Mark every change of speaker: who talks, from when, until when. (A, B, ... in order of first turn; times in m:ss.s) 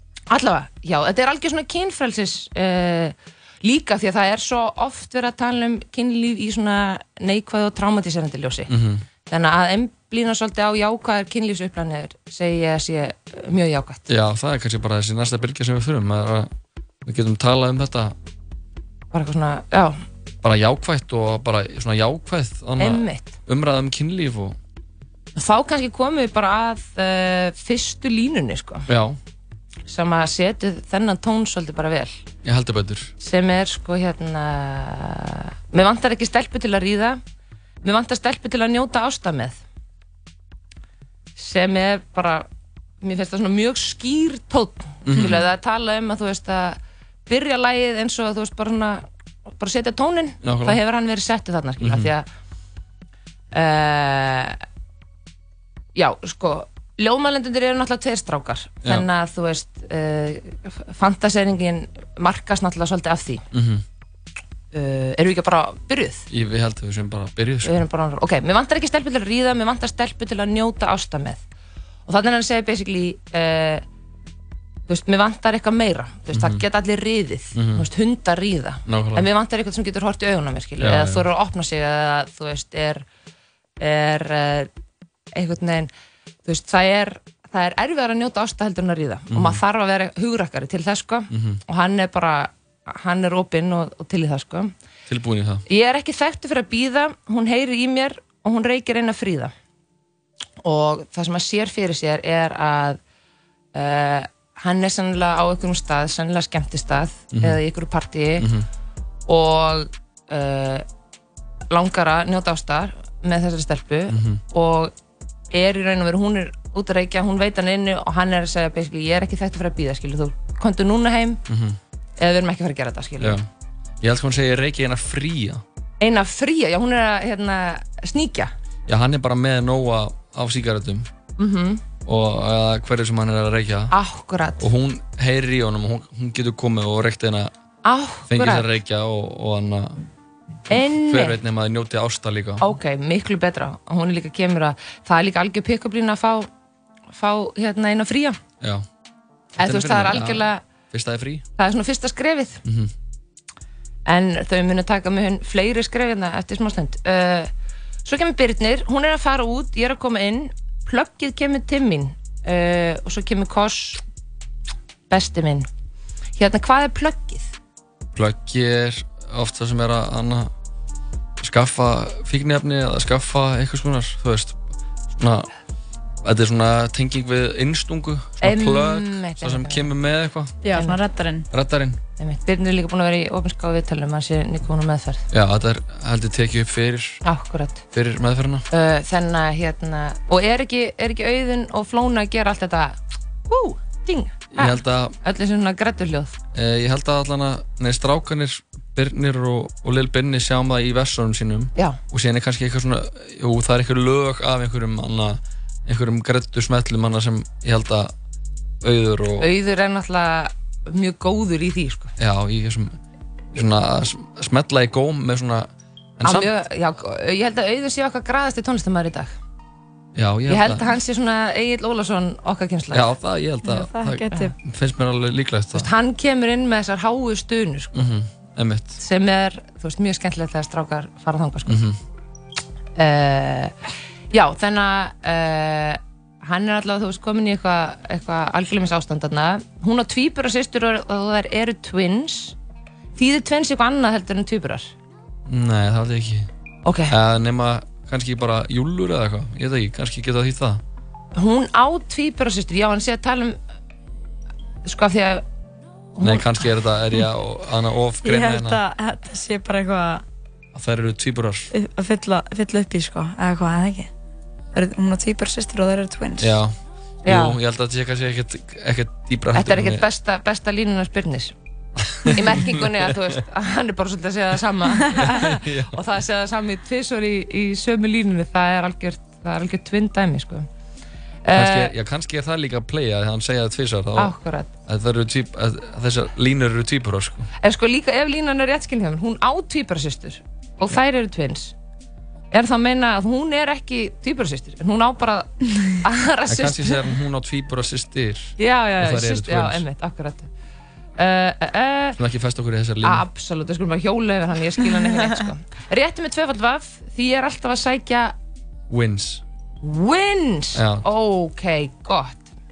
0:00.3-0:08.7 A
0:08.7-0:09.0 B
0:09.3-0:14.1 A
0:14.1-0:16.5 B
0:17.0-0:18.2 B
0:19.1-0:20.0 A
0:20.4-0:24.6 B
0:22.8-0:23.4 A
0:25.4-0:28.9 A
0:28.9-0:29.2 B
0:29.9-0:32.2 A
0:32.4-0:33.1 B
0:33.2-0:37.2 A
0:37.8-0:39.6 A
0:41.4-0:42.5 A
0:43.0-0:49.0 A
0:45.0-0:45.5 B
0:49.6-0:52.3 A
0:50.4-0:50.8 B
0:51.8-0:52.1 B
0:53.5-0:54.6 A
0:56.0-1:03.4 A
1:03.5-1:03.8 B
1:04.7-1:06.3 A
1:06.3-1:07.8 B
1:07.6-1:11.4 A
1:12.1-1:13.8 A
1:14.9-1:23.0 A
1:16.3-1:16.6 B
1:17.5-1:17.9 B
1:18.9-1:19.3 B
1:20.8-1:21.3 B
1:23.8-1:24.7 A
1:25.4-1:25.9 A
1:26.5-1:34.7 A
1:29.3-1:29.6 B
1:31.3-1:31.6 B
1:35.1-1:35.6 B
1:35.7-1:39.5 A
1:40.6-1:43.0 A
1:43.7-1:48.5 A
1:47.3-1:47.6 B
1:48.4-1:48.7 B
1:49.3-1:50.8 A
1:51.7-1:54.9 A
1:54.1-1:54.4 B
1:55.5-2:01.4 A
2:01.5-2:01.8 B
2:02.2-2:03.4 A
2:03.2-2:03.5 B
2:04.0-2:05.6 B
2:06.0-2:08.5 A
2:08.9-2:11.1 B
2:11.4-2:11.9 A
2:12.0-2:14.0 B
2:13.9-2:14.7 A
2:14.6-2:17.5 B
2:17.8-2:18.7 A
2:18.3-2:20.0 B
2:20.7-2:21.4 A
2:20.7-2:22.6 B
2:22.6-2:26.5 A
2:27.1-2:28.4 A
2:29.6-2:30.6 A
2:29.6-2:31.4 B
2:31.6-2:32.6 A
2:32.6-2:32.9 B
2:34.1-2:37.5 A
2:38.0-2:44.0 A
2:45.1-2:45.7 A
2:46.4-2:47.5 A
2:48.2-2:50.5 B
2:51.4-2:54.6 B
2:55.2-2:55.5 B
2:56.2-3:00.6 B
2:58.4-2:59.9 A
3:00.6-3:01.5 C
3:01.5-3:02.0 B
3:02.2-3:05.2 A
3:05.3-3:07.2 B
3:07.2-3:07.8 A
3:07.9-3:08.6 B
3:08.7-3:16.4 A
3:14.5-3:15.2 B
3:16.5-3:28.1 B
3:28.8-3:29.5 B
3:29.4-3:32.1 A
3:32.2-3:33.0 B
3:33.5-3:36.5 B
3:36.2-3:39.3 A
3:40.2-3:40.9 B
3:40.5-3:43.1 A
3:42.9-3:45.9 B
3:43.6-3:44.5 C
3:45.7-3:47.9 A
3:47.9-3:49.0 B
3:49.0-3:51.8 A
3:51.7-3:52.0 B
3:53.0-3:53.8 A
3:54.3-4:02.6 A
4:03.2-4:04.9 A
4:05.5-4:06.5 B
4:06.8-4:07.1 A
4:07.1-4:10.8 B
4:11.4-4:13.6 A
4:14.8-4:15.4 A
4:16.2-4:16.5 A
4:16.2-4:18.8 B
4:18.2-4:20.2 C
4:20.7-4:21.7 B
4:21.7-4:24.1 C
4:24.7-4:26.6 C
4:26.4-4:30.0 B
4:27.2-4:27.6 A
4:29.5-4:31.5 A
4:32.0-4:33.4 B
4:32.3-4:40.7 A
4:35.1-4:36.0 B
4:41.4-4:41.9 A
4:41.5-4:44.3 B
4:44.2-4:44.7 A
4:44.9-4:47.5 B
4:47.6-4:51.7 A
4:52.5-4:57.0 A
4:56.5-4:59.8 B
4:58.6-5:00.5 A
5:01.2-5:02.2 A
5:02.2-5:03.2 B
5:03.0-5:08.4 A
5:08.9-5:09.4 B
5:09.8-5:12.5 A
5:10.7-5:11.1 B